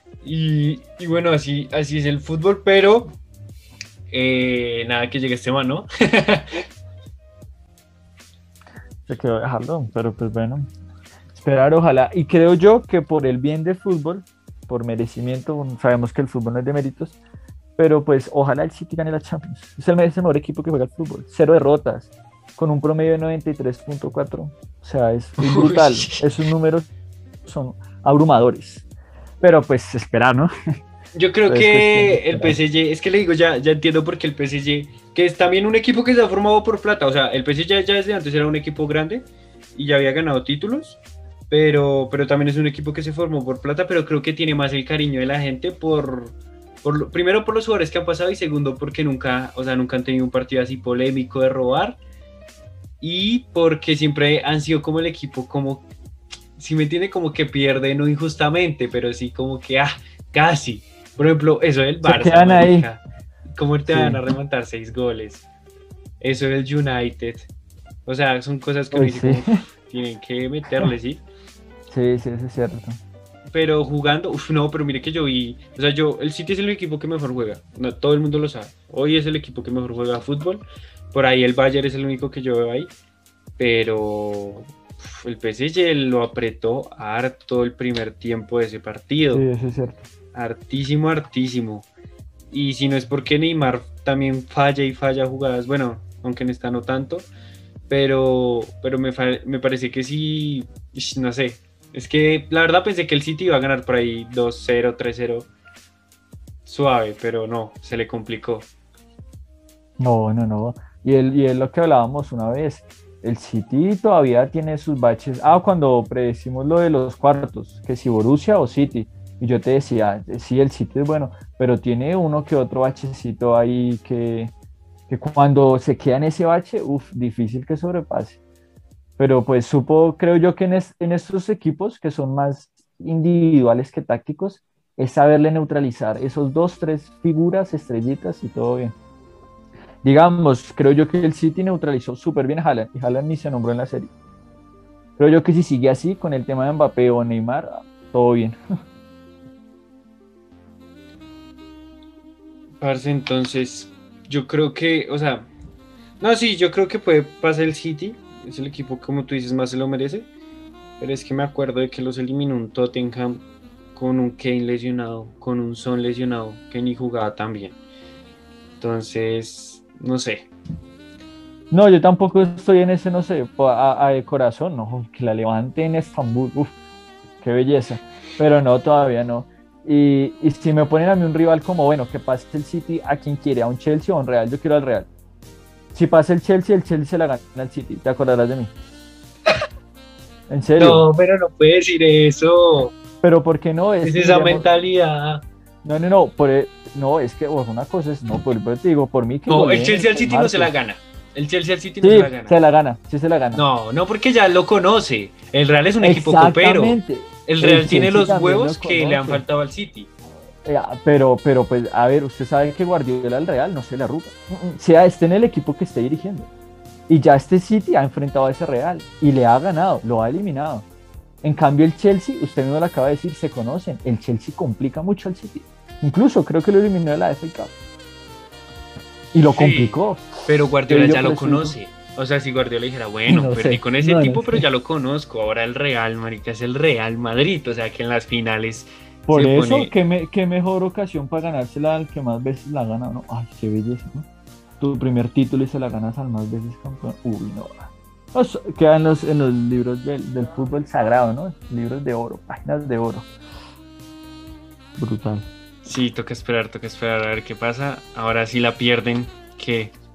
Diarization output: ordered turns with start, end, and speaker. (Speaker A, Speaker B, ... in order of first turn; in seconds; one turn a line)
Speaker A: 0.2-3.2
Speaker A: 4.1-6.6
Speaker B: 9.1-10.7
Speaker B: 11.3-17.1
Speaker B: 17.8-26.9
Speaker A: 25.4-26.4
Speaker B: 27.4-28.8
Speaker B: 29.4-30.5
Speaker A: 31.1-52.0
Speaker B: 31.5-32.6
Speaker A: 53.0-55.9
Speaker A: 56.6-65.4
Speaker B: 62.0-62.9
Speaker B: 63.9-64.2
Speaker A: 66.2-67.5
Speaker A: 68.0-71.2
Speaker B: 68.9-69.6
Speaker B: 71.9-73.0
Speaker A: 73.5-82.9
Speaker A: 83.6-89.5
Speaker B: 89.3-90.0
Speaker A: 90.3-91.9
Speaker A: 92.5-97.3
Speaker A: 97.9-105.5
Speaker A: 106.7-108.7
Speaker B: 110.0-124.5
Speaker B: 125.1-128.4
Speaker B: 129.2-138.9
Speaker B: 140.0-144.1
Speaker B: 145.2-148.6
Speaker A: 152.8-155.5
Speaker A: 156.2-160.3
Speaker A: 161.0-163.4
Speaker A: 163.9-167.8
Speaker A: 168.8-170.5
Speaker B: 171.7-176.7
Speaker B: 177.4-185.1
Speaker B: 185.9-188.7
Speaker B: 190.5-191.1
Speaker A: 190.8-192.9
Speaker B: 193.2-194.7
Speaker A: 194.0-195.4
Speaker B: 195.8-200.7
Speaker A: 199.5-202.6
Speaker B: 202.0-203.6
Speaker A: 203.5-210.1
Speaker B: 206.0-209.4
Speaker B: 210.6-216.5
Speaker B: 217.1-220.8
Speaker B: 221.4-227.7
Speaker B: 229.3-231.8
Speaker A: 229.5-239.9
Speaker B: 233.3-234.6
Speaker B: 239.3-244.3
Speaker B: 244.8-253.3
Speaker B: 255.0-255.5
Speaker A: 255.8-259.9